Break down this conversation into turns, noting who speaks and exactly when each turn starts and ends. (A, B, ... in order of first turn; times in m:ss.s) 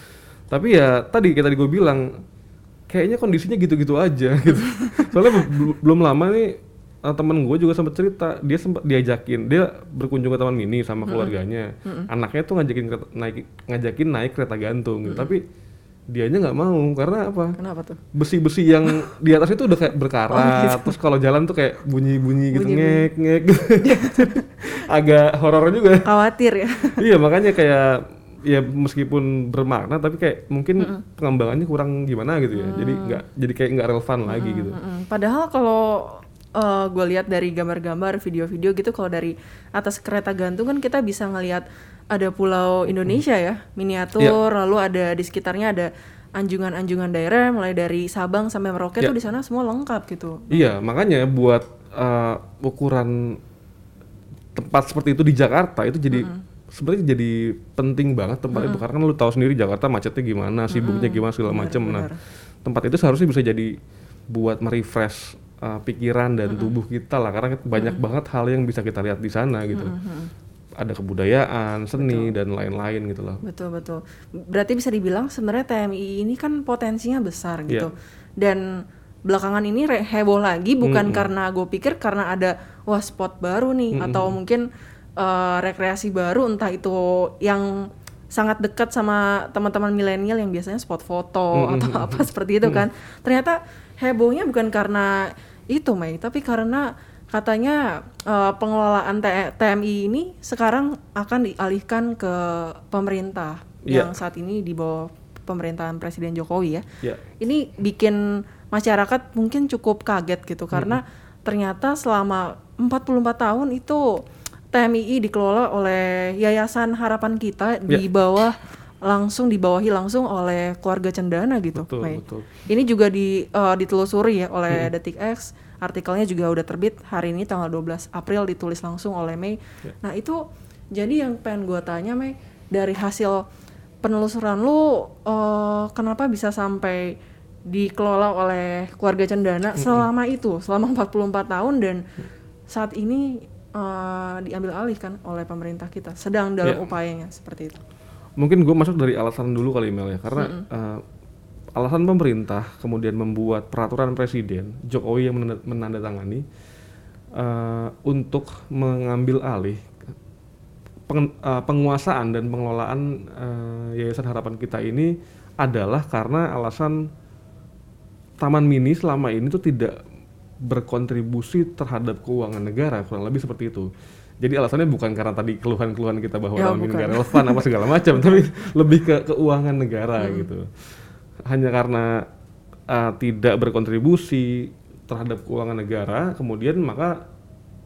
0:00.5-0:02.1 A
0:02.9-0:15.4 A
0:11.0-0:11.3 B
0:15.1-0:15.3 B
0:16.1-0:17.6 A
0:17.6-0:18.0 B
0:18.1-0:26.1 A
0:20.3-0:21.0 B
0:22.5-0:23.1 B
0:23.8-0:24.3 B
0:26.0-0:27.0 B
0:27.0-0:34.8 A
0:32.6-0:33.2 B
0:34.3-0:50.7 B
0:50.5-0:53.4 A
0:54.6-1:02.1 A
0:56.1-0:56.4 B
0:58.5-0:58.8 B
1:00.7-1:02.2 B
1:02.6-1:03.7 A
1:04.3-1:09.9 A
1:06.5-1:06.8 B
1:07.8-1:08.0 B
1:09.7-1:10.3 B
1:10.8-1:13.4 A
1:12.0-1:12.3 B
1:13.4-1:18.6 B
1:19.3-1:24.7 B
1:20.8-1:21.3 A
1:23.9-1:24.4 A
1:25.2-1:27.8 B
1:28.3-1:46.8 B
1:31.5-1:32.9 A
1:43.9-1:44.2 A
1:47.4-1:54.1 B
1:50.7-1:51.0 A
1:54.7-2:10.4 B
2:01.8-2:02.5 A
2:10.9-2:13.4 B
2:14.0-2:17.2 B
2:17.7-2:22.0 B
2:19.8-2:20.1 A
2:22.7-2:27.8 B
2:26.6-2:26.9 A
2:28.4-2:31.0 A
2:30.4-2:30.6 B
2:31.8-2:36.4 A
2:37.4-2:39.9 A
2:41.1-2:47.0 A
2:48.4-2:50.0 A
2:50.6-2:53.9 A
2:54.4-3:00.7 A
2:56.6-2:58.4 B
3:00.2-3:00.5 B
3:01.5-3:02.1 A
3:02.9-3:07.2 A